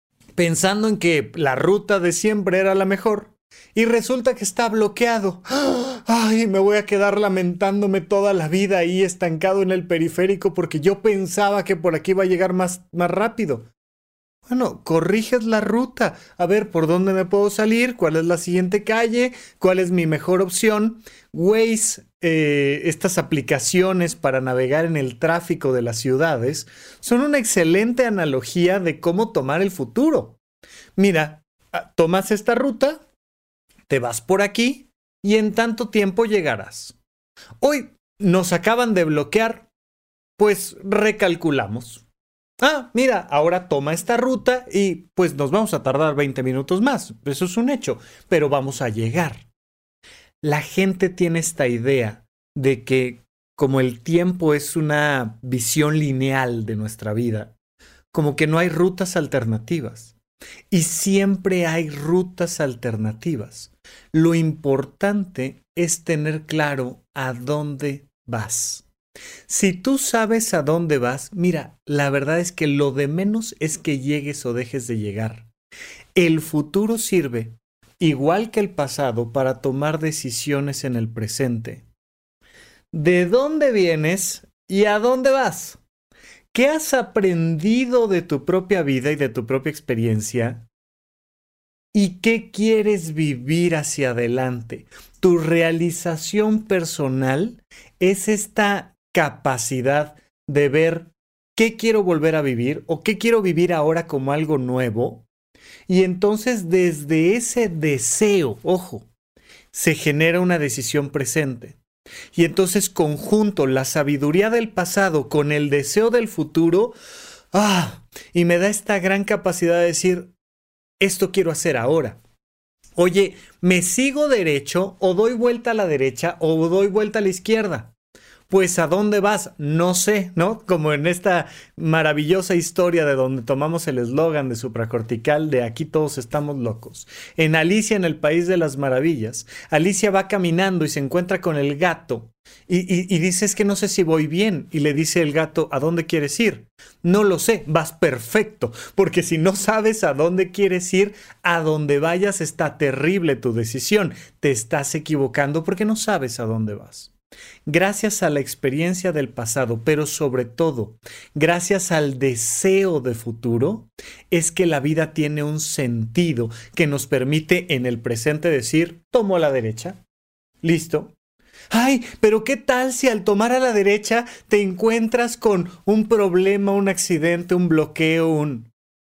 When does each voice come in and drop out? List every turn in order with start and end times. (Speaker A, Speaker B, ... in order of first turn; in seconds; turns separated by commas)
Speaker A: 0.4-13.7, Speaker A: 14.4-30.4, Speaker A: 30.9-33.0, Speaker A: 33.9-37.0, Speaker A: 37.6-39.7, Speaker A: 40.4-42.0, Speaker A: 42.6-49.5, Speaker A: 50.4-57.5, Speaker A: 58.1-60.1, Speaker A: 60.7-68.9, Speaker A: 69.5-75.5, Speaker A: 76.2-81.8, Speaker A: 82.9-85.8, Speaker A: 86.5-90.6, Speaker A: 91.9-105.3, Speaker A: 105.9-109.1, Speaker A: 109.7-111.8, Speaker A: 112.3-117.0, Speaker A: 117.5-120.3, Speaker A: 121.0-122.2, Speaker A: 123.0-127.9, Speaker A: 128.5-157.1, Speaker A: 157.7-170.0, Speaker A: 170.6-171.1, Speaker A: 171.7-178.7